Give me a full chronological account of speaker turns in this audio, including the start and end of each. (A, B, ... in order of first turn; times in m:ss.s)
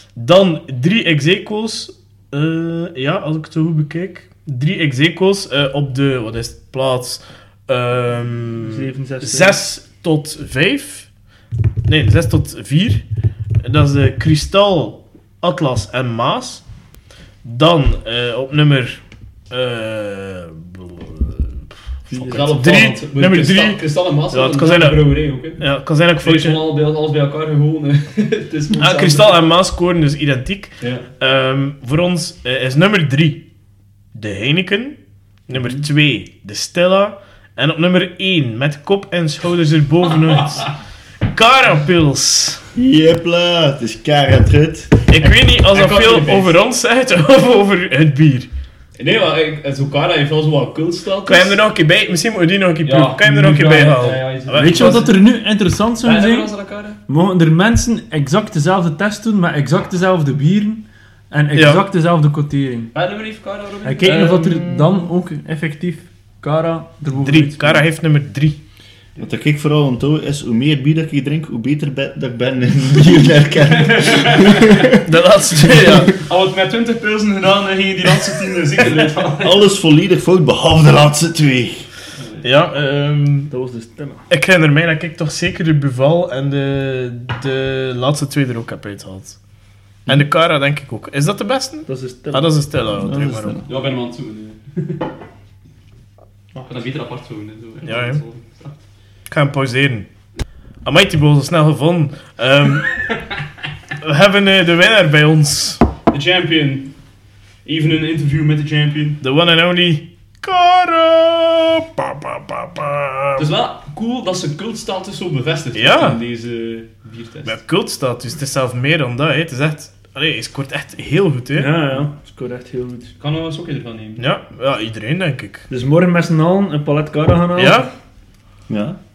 0:00.2-0:11.1 A
0:08.6-0:09.6 B
0:11.9-0:13.0 A
0:13.6-0:16.6 A
0:17.4-0:23.8 A
0:22.1-0:22.5 B
0:22.1-0:25.6 C
0:24.3-0:26.7 A
0:26.2-0:29.4 C
0:28.7-0:33.4 A
0:30.8-0:31.1 C
0:34.1-0:35.0 A
0:35.5-0:42.6 A
0:35.6-0:35.8 C
0:42.7-0:45.1 D
0:45.1-0:48.5 A
0:45.7-0:46.5 C
0:49.0-0:51.6 C
0:51.2-0:55.1 A
0:52.8-0:55.2 C
0:54.5-0:56.5 B
0:56.0-0:57.0 C
0:57.1-1:02.9 B
1:01.5-1:01.8 A
1:02.9-1:04.2 C
1:03.8-1:07.8 B
1:04.0-1:04.9 A
1:07.2-1:08.6 A
1:09.2-1:15.0 D
1:13.6-1:14.9 C
1:15.0-1:16.2 A
1:15.6-1:19.6 C
1:19.4-1:21.9 D
1:22.4-1:23.5 A
1:23.5-1:24.3 B
1:24.3-1:29.4 A
1:30.1-1:33.6 A
1:31.8-1:32.5 B
1:32.9-1:33.7 D
1:33.6-1:35.1 C
1:36.6-1:38.8 C
1:37.8-1:38.2 A
1:39.3-1:40.1 A
1:40.8-1:43.0 A
1:44.0-1:45.8 A
1:46.1-1:46.9 C
1:47.6-1:49.2 C
1:49.2-1:53.5 A
1:53.4-1:57.6 C
1:55.7-1:56.2 A
1:57.4-2:01.8 A
2:01.6-2:03.1 B
2:03.2-2:04.2 C
2:04.2-2:05.6 A
2:05.7-2:07.9 B
2:07.6-2:07.9 A
2:08.7-2:09.0 D